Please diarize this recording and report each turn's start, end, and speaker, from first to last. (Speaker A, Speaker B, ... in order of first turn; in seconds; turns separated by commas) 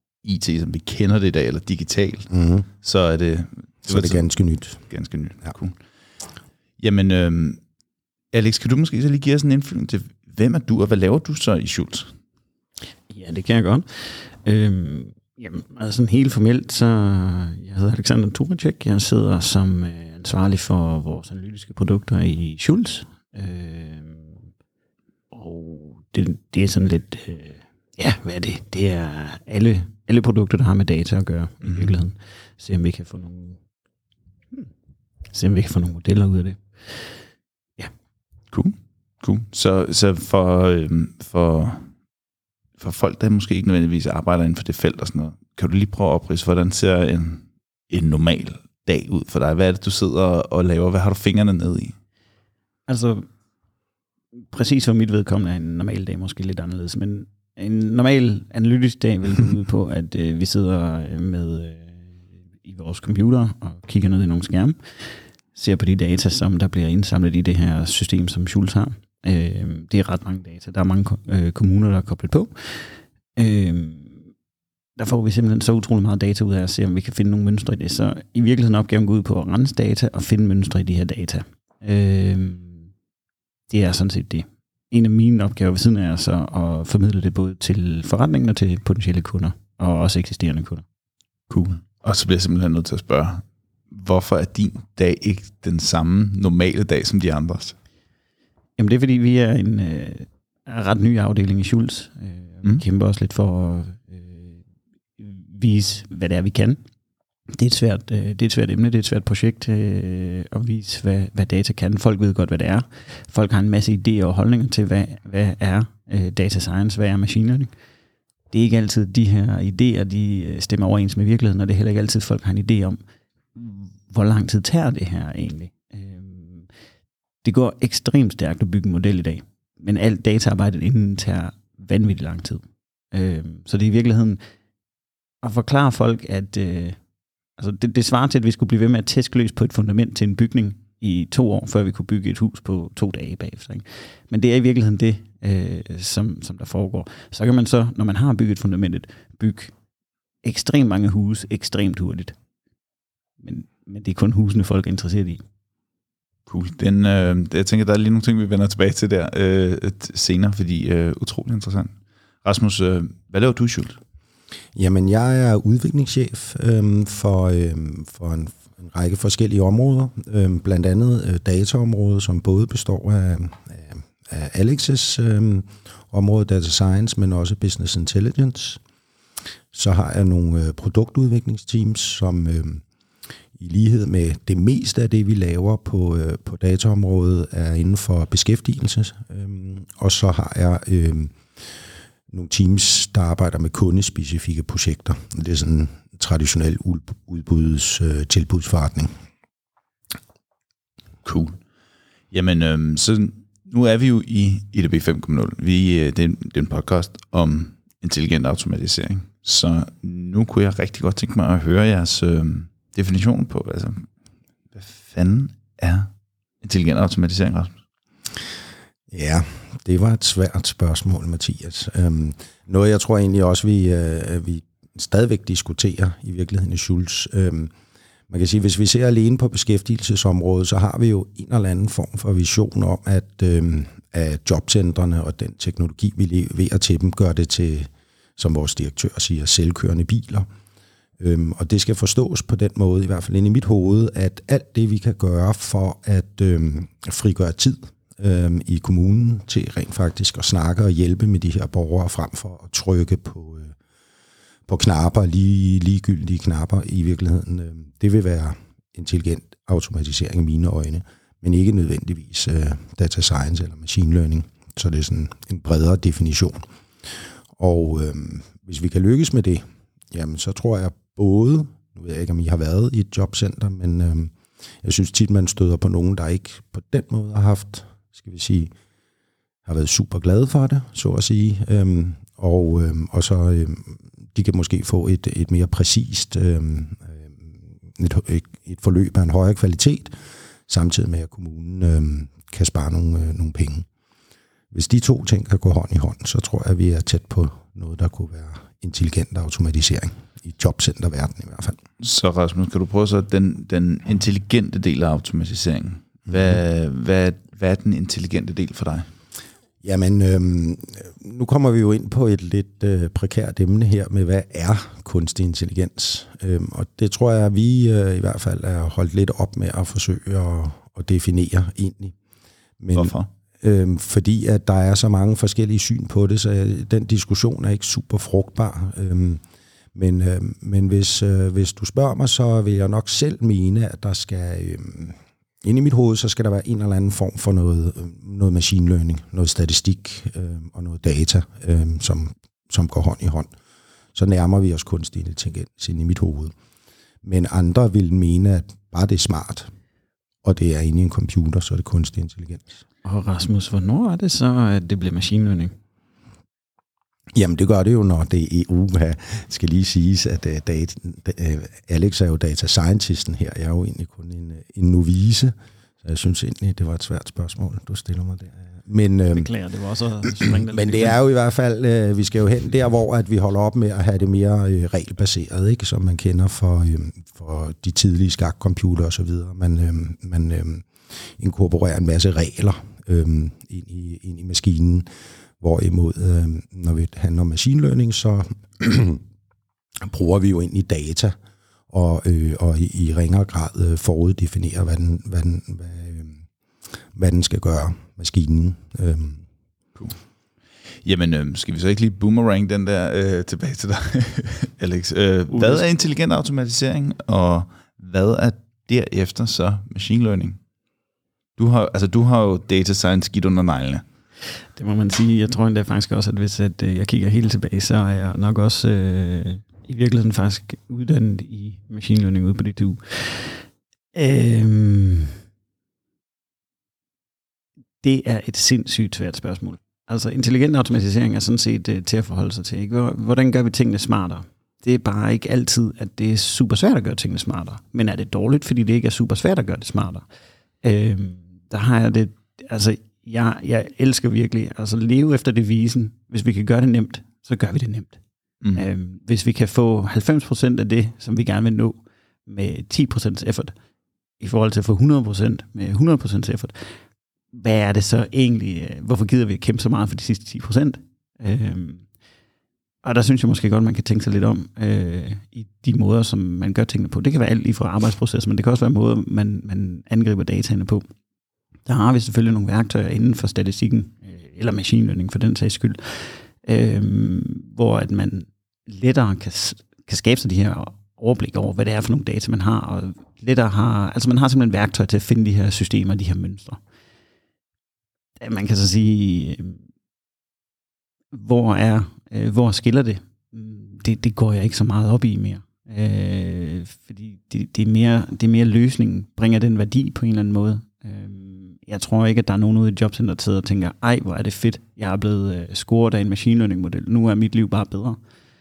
Speaker A: 0.2-5.8, Speaker B: 2.3-2.6, Speaker B: 3.9-4.8, Speaker A: 6.8-7.6, Speaker A: 8.3-12.1, Speaker C: 13.1-24.3, Speaker C: 25.3-33.6, Speaker A: 31.6-31.9, Speaker C: 35.3-37.1, Speaker A: 38.5-41.9, Speaker A: 42.8-52.0, Speaker C: 52.9-53.3, Speaker C: 54.5-62.0, Speaker C: 62.6-74.2, Speaker C: 75.0-82.8, Speaker C: 83.7-90.8, Speaker A: 91.5-97.7, Speaker C: 98.8-104.6, Speaker C: 105.2-106.8, Speaker C: 107.5-117.7, Speaker C: 118.5-123.0, Speaker C: 123.5-126.7, Speaker C: 127.4-134.4, Speaker C: 135.4-137.0, Speaker C: 137.6-149.7, Speaker C: 150.4-152.3, Speaker C: 153.4-155.4, Speaker A: 156.5-161.9, Speaker A: 162.4-164.0, Speaker B: 164.7-178.8, Speaker B: 179.7-182.8, Speaker B: 183.6-191.3, Speaker B: 192.3-199.1, Speaker A: 201.2-201.6, Speaker A: 202.3-214.1, Speaker A: 214.7-216.1, Speaker A: 216.6-217.8, Speaker B: 219.1-227.7, Speaker B: 228.3-240.5, Speaker B: 241.2-253.7, Speaker B: 254.7-266.6, Speaker B: 267.6-278.7, Speaker B: 279.6-290.1, Speaker B: 290.7-293.9, Speaker B: 294.7-301.8, Speaker A: 302.0-309.1, Speaker B: 306.3-306.6, Speaker B: 309.8-322.1, Speaker B: 322.8-329.4, Speaker A: 322.9-323.3, Speaker B: 329.9-343.5, Speaker B: 344.1-346.5, Speaker B: 347.2-349.7, Speaker B: 350.4-352.8, Speaker C: 353.0-355.7, Speaker B: 357.3-369.5, Speaker C: 369.3-371.2, Speaker B: 370.3-389.2, Speaker B: 390.0-391.3, Speaker B: 391.9-396.4, Speaker B: 397.1-399.4, Speaker A: 401.0-410.6, Speaker C: 405.5-405.9, Speaker A: 411.6-414.0, Speaker C: 414.7-425.3, Speaker C: 428.0-440.2, Speaker C: 440.8-448.2, Speaker C: 448.7-453.7, Speaker C: 454.4-456.9, Speaker C: 457.5-462.1, Speaker C: 463.0-471.1, Speaker C: 471.9-486.8, Speaker C: 488.4-489.8, Speaker C: 491.3-508.2